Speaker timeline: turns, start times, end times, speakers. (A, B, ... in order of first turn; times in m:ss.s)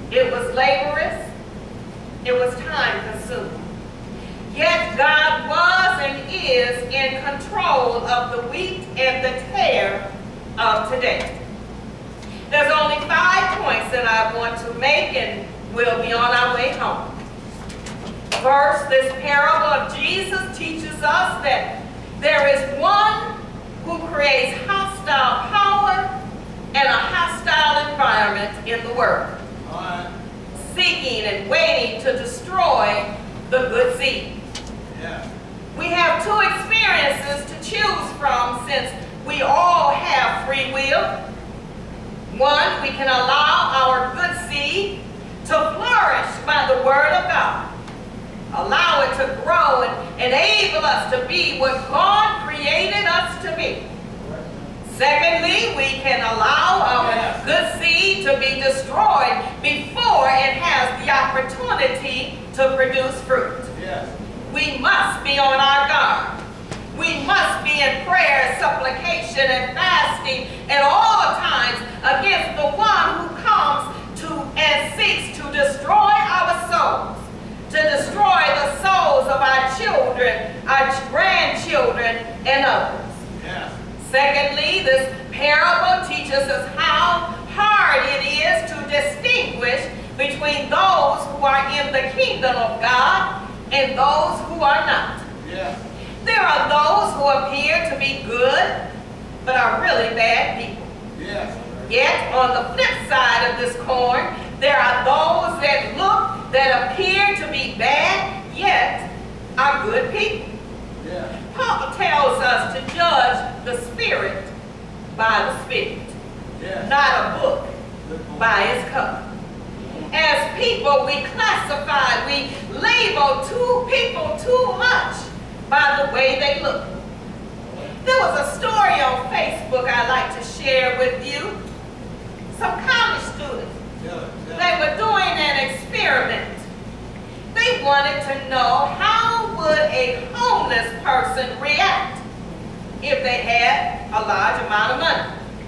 0:00.1-0:01.3 A
0:02.2-0:03.7 A
0:04.5-0:10.1 A
0:10.6-0:11.4 A
0:12.5-0:17.1 A
0:18.4-0:26.1 A
0:26.7-0:29.4 A
0:29.6-0:30.1 B
0:30.6-0:34.4 A
0:34.9-0:35.3 B
0:35.7-0:41.2 A
0:42.3-0:47.7 A
0:48.5-0:53.9 A
0:54.2-0:54.6 B
0:54.9-1:03.7 A
0:57.0-0:57.4 B
1:03.7-1:04.1 B
1:04.5-1:06.4 A
1:06.9-1:23.1 A
1:23.4-1:23.7 B
1:24.0-1:35.2 A
1:35.4-1:35.8 B
1:36.2-1:38.8 A
1:39.4-1:40.9 A
1:41.2-1:41.8 B
1:41.9-1:50.5 A
1:51.0-1:51.3 B
1:51.5-1:54.5 A
1:55.1-1:56.1 A
1:56.6-1:56.9 B
1:56.8-1:57.7 A
1:58.0-1:58.8 B
1:58.4-1:59.2 A
2:00.1-2:07.0 A
2:08.0-2:11.6 A
2:12.5-2:13.8 A
2:14.0-2:14.7 B
2:14.5-2:16.7 A
2:17.5-2:22.2 A
2:23.0-2:25.3 A